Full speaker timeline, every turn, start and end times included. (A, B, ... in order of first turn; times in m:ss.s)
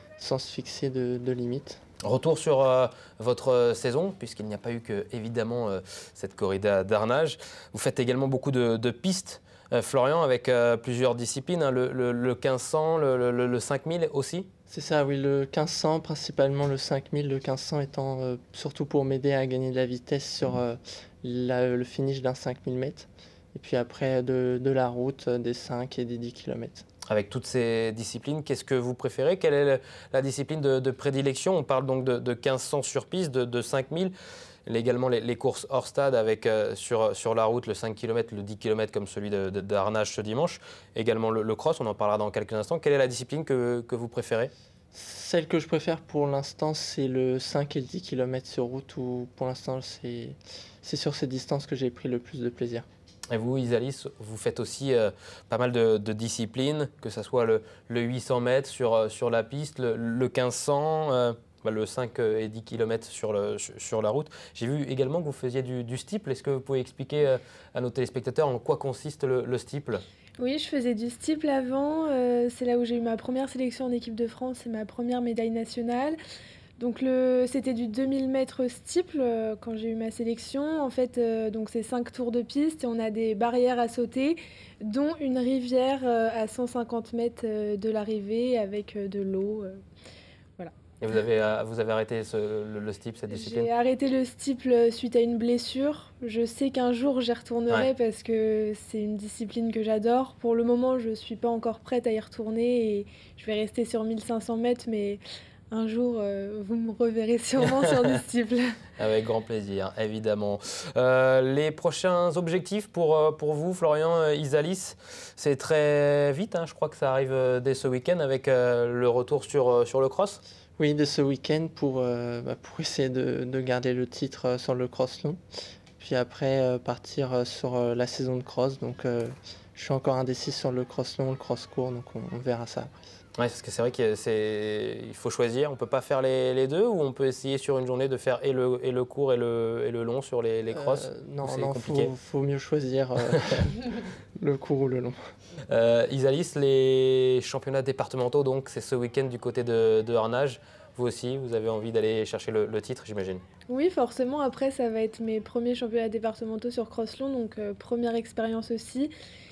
0:00.2-0:01.8 A
0:02.0-0:14.5 B
0:14.7-0:26.8 A
0:27.1-0:34.1 B
0:34.6-0:44.5 B
0:44.9-0:52.9 A
0:53.3-1:10.0 B
1:10.4-1:16.2 C
1:16.8-1:29.8 C
1:31.0-1:33.7 B
1:33.3-1:48.8 C
1:49.0-2:00.4 B
2:00.8-2:05.4 A
2:06.0-2:13.1 A
2:13.4-2:22.1 B
2:20.7-2:25.2 A
2:25.7-2:33.4 B
2:33.7-2:39.1 C